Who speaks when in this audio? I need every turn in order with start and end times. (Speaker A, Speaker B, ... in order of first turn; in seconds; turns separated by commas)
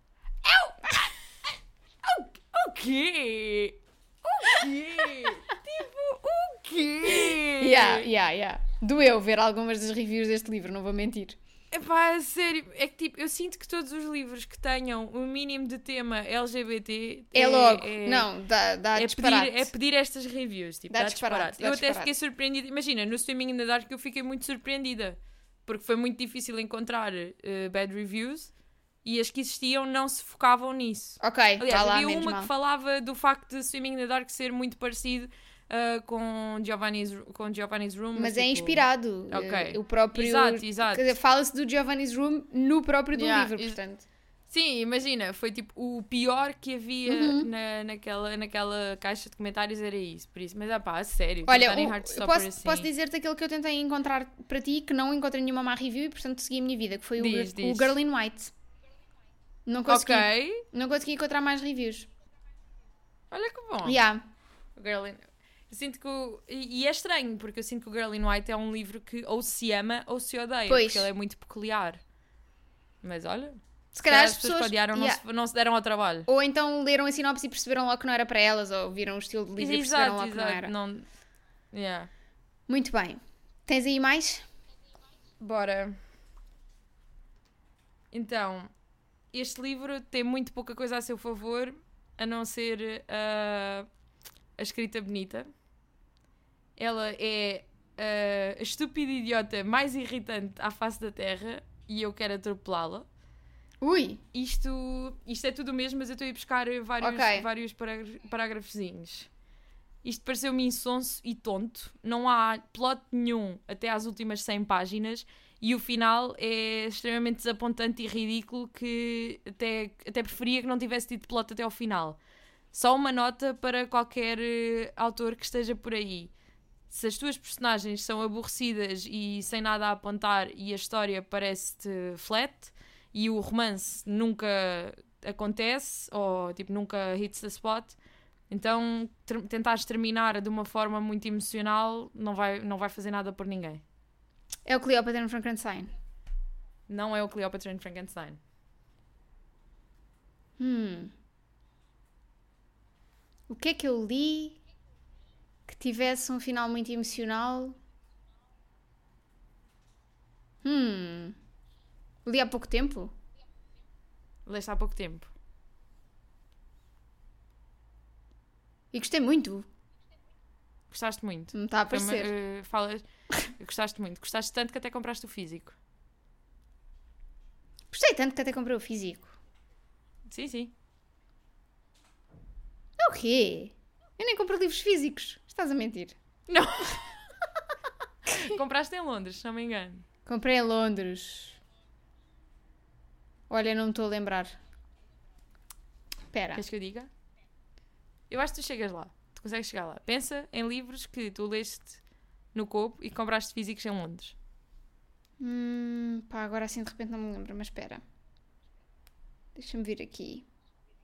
Speaker A: 0.4-1.1, Speaker A: 2.0-8.1, Speaker B: 7.2-11.3, Speaker A: 11.7-18.3, Speaker B: 17.3-19.7, Speaker A: 18.9-28.5, Speaker B: 20.9-22.1, Speaker A: 29.0-41.1, Speaker B: 31.2-32.5, Speaker B: 38.1-44.0, Speaker A: 43.1-43.8, Speaker A: 44.5-52.9, Speaker B: 47.1-47.5, Speaker B: 51.5-58.5, Speaker A: 57.2-58.0, Speaker B: 59.7-62.1, Speaker A: 59.9-60.6, Speaker A: 63.3-64.0, Speaker B: 63.8-64.2, Speaker A: 64.8-72.0, Speaker B: 70.7-71.1, Speaker A: 73.0-76.3, Speaker B: 73.9-75.2, Speaker B: 76.3-80.7, Speaker A: 79.6-81.1, Speaker A: 81.7-82.1, Speaker B: 82.7-84.5, Speaker A: 85.4-86.0, Speaker A: 88.1-88.7, Speaker A: 89.3-93.9, Speaker A: 94.6-95.5, Speaker A: 96.8-103.1, Speaker B: 103.8-104.2, Speaker A: 104.3-109.3, Speaker B: 107.0-107.5, Speaker A: 110.0-122.2, Speaker A: 122.7-126.3, Speaker A: 126.9-138.0, Speaker A: 138.5-143.8, Speaker B: 144.7-145.9, Speaker A: 146.9-148.4, Speaker B: 150.6-151.1, Speaker B: 153.5-154.6, Speaker B: 155.7-157.8, Speaker B: 160.6-161.3, Speaker B: 162.2-163.1, Speaker A: 164.4-165.3, Speaker B: 168.9-169.7, Speaker A: 170.9-175.8, Speaker B: 171.5-172.3, Speaker B: 177.9-179.3, Speaker A: 180.2-180.7, Speaker B: 183.0-186.2, Speaker A: 186.5-187.2, Speaker A: 188.2-190.1, Speaker B: 190.2-191.6, Speaker B: 193.5-194.6, Speaker B: 196.3-196.6, Speaker A: 196.5-197.1, Speaker A: 198.3-202.0, Speaker A: 202.5-204.3, Speaker B: 205.4-208.0, Speaker B: 209.6-210.4